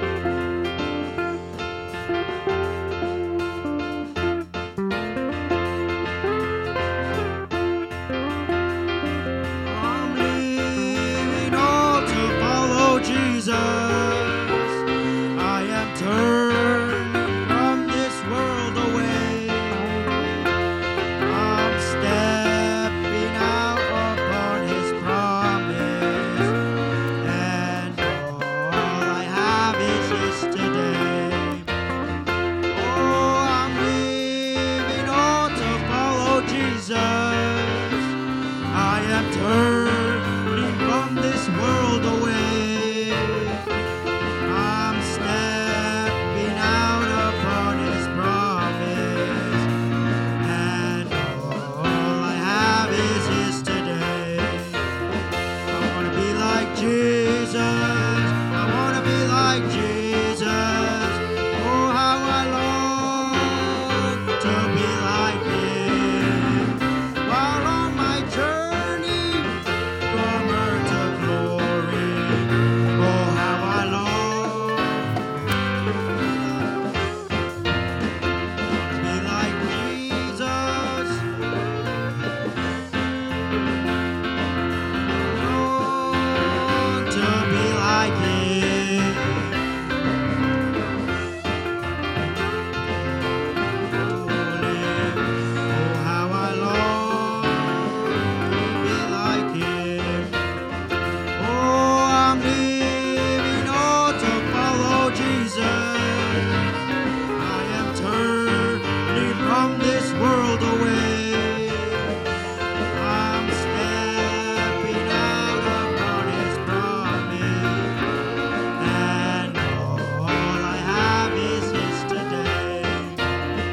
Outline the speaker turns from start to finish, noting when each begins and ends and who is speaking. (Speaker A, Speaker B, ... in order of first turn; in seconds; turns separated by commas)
Speaker A: 9.6-20.5, Speaker A: 21.2-26.6, Speaker A: 27.2-31.7, Speaker A: 32.7-38.1, Speaker A: 38.7-43.6, Speaker A: 44.4-49.7, Speaker A: 50.4-54.9, Speaker A: 55.7-75.1, Speaker A: 75.7-77.0, Speaker A: 78.6-81.2, Speaker A: 85.1-89.5, Speaker A: 93.8-100.4, Speaker A: 101.3-106.7, Speaker A: 107.3-112.2, Speaker A: 112.9-118.0, Speaker A: 118.8-123.3